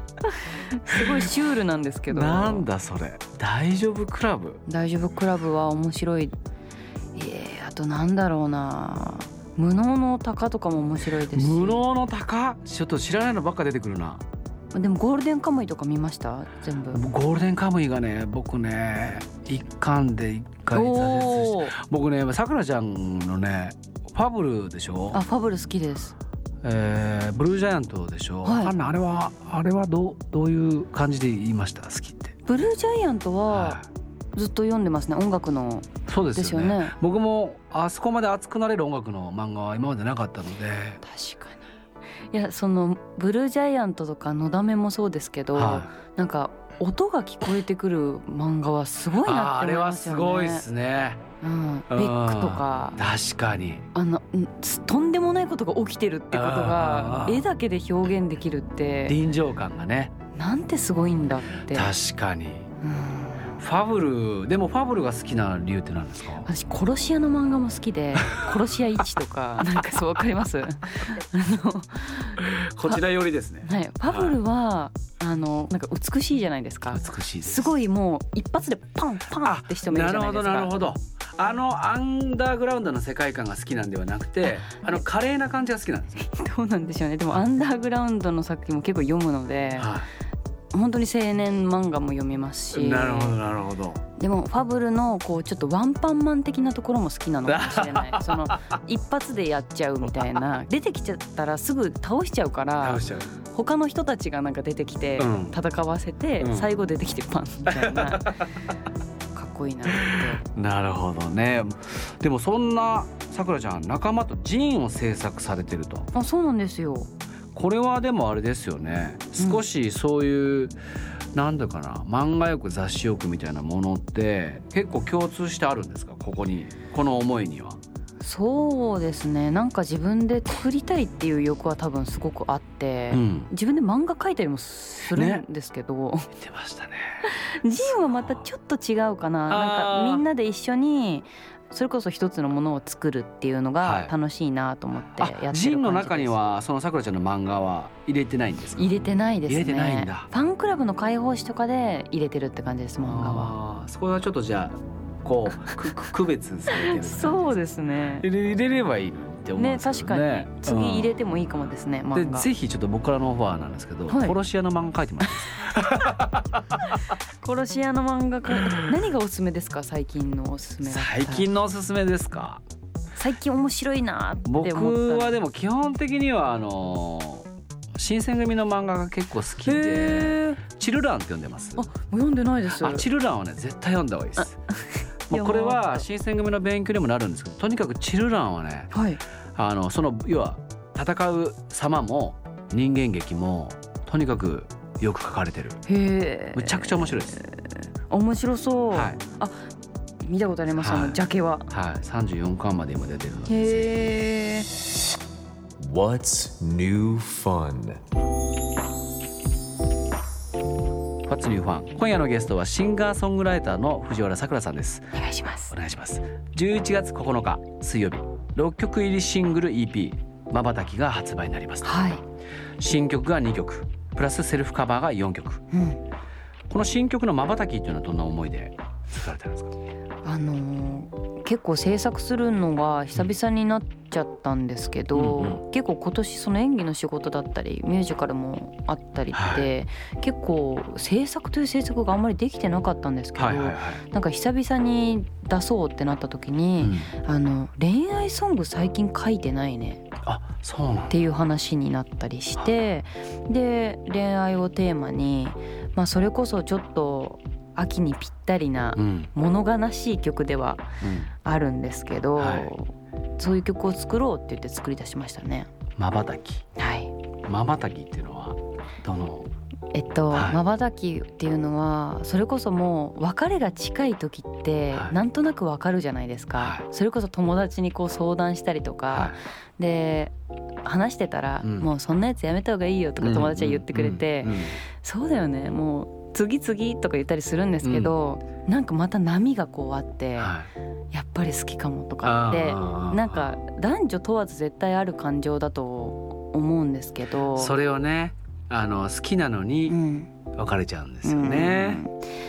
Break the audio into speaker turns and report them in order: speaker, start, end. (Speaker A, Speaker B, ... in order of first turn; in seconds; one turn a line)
Speaker A: 0.3-2.7
Speaker B: 2.1-4.6
Speaker A: 4.7-6.3
Speaker A: 7.2-11.8
Speaker B: 11.3-14.2
Speaker A: 14.7-17.1
Speaker B: 16.9-25.2
Speaker A: 20.7-21.8
Speaker A: 25.1-26.2
Speaker B: 26.6-32.4
Speaker A: 28.4-28.7
Speaker A: 32.5-33.8
Speaker B: 33.5-33.9
Speaker A: 34.3-36.9
Speaker B: 36.1-41.0
Speaker A: 41.0-41.6
Speaker A: 42.3-50.6
Speaker B: 45.5-45.9
Speaker B: 49.2-51.2
Speaker A: 51.4-53.0
Speaker B: 51.9-53.9
Speaker A: 53.9-59.2
Speaker B: 56.3-57.5
Speaker B: 59.1-60.1
Speaker A: 60.4-61.9
Speaker B: 61.7-62.7
Speaker A: 62.8-63.5
Speaker B: 63.6-66.5
Speaker A: 66.4-73.0
Speaker B: 72.5-74.4
Speaker A: 73.6-80.8
Speaker B: 76.9-77.7
Speaker B: 79.4-86.1
Speaker A: 84.5-85.0
Speaker A: 86.1-89.9
Speaker B: 89.8-90.1
Speaker A: 90.7-93.4
Speaker B: 92.7-94.0
Speaker A: 94.2-108.3
Speaker B: 97.5-98.6
Speaker B: 102.8-103.3
Speaker B: 105.2-105.6
Speaker B: 106.4-106.7
Speaker B: 107.7-108.4
Speaker A: 109.3-110.4
Speaker B: 109.9-116.1
Speaker A: 116.1-117.1
Speaker B: 117.5-120.8
Speaker B: 121.3-127.8
Speaker A: 128.2-136.3
Speaker B: 133.1-133.5
Speaker B: 135.1-135.4
Speaker B: 136.3-137.2
Speaker A: 137.2-146.4
Speaker B: 137.9-138.4
Speaker B: 139.5-140.2
Speaker B: 143.8-144.1
Speaker B: 145.2-148.9
Speaker A: 148.8-153.5
Speaker B: 149.5-150.3
Speaker B: 153.0-157.5
Speaker A: 156.7-158.3
Speaker B: 158.2-161.1
Speaker A: 159.6-162.5
Speaker B: 162.2-166.4
Speaker A: 164.1-164.4
Speaker A: 167.4-171.5
Speaker B: 170.9-172.6
Speaker A: 173.2-175.4
Speaker B: 174.5-181.9
Speaker A: 179.7-180.6
Speaker A: 181.8-183.1
Speaker B: 182.8-184.6
Speaker A: 184.4-186.1
Speaker B: 185.3-188.9
Speaker A: 188.9-189.2
Speaker B: 189.6-195.8
Speaker A: 195.9-199.5
Speaker B: 196.6-197.4
Speaker B: 198.9-199.2
Speaker A: 200.2-201.7
Speaker B: 200.8-203.9
Speaker A: 203.5-204.7
Speaker C: 205.8-208.0
Speaker B: 211.3-215.1
Speaker A: 215.1-215.7
Speaker B: 215.7-221.9
Speaker A: 221.8-222.2
Speaker B: 222.8-225.6
Speaker A: 225.7-226.0
Speaker B: 226.7-229.7
Speaker A: 230.2-250.0
Speaker B: 235.1-235.6
Speaker B: 239.3-239.7
Speaker B: 243.4-244.0
Speaker B: 246.8-247.1
Speaker B: 250.2-251.2
Speaker A: 251.1-260.8
Speaker B: 259.0-259.3
Speaker B: 261.0-261.3
Speaker A: 261.4-265.7
Speaker B: 262.4-262.7
Speaker B: 266.0-266.6
Speaker A: 266.8-267.1
Speaker B: 267.5-269.5
Speaker A: 269.9-290.6
Speaker B: 270.3-270.6
Speaker B: 276.6-276.9
Speaker B: 279.1-279.4
Speaker B: 283.2-284.8
Speaker B: 287.8-288.1
Speaker B: 290.4-290.7
Speaker A: 291.1-297.8
Speaker B: 292.2-293.6
Speaker B: 297.6-300.0
Speaker A: 299.9-300.3
Speaker B: 300.6-302.0
Speaker A: 301.2-302.1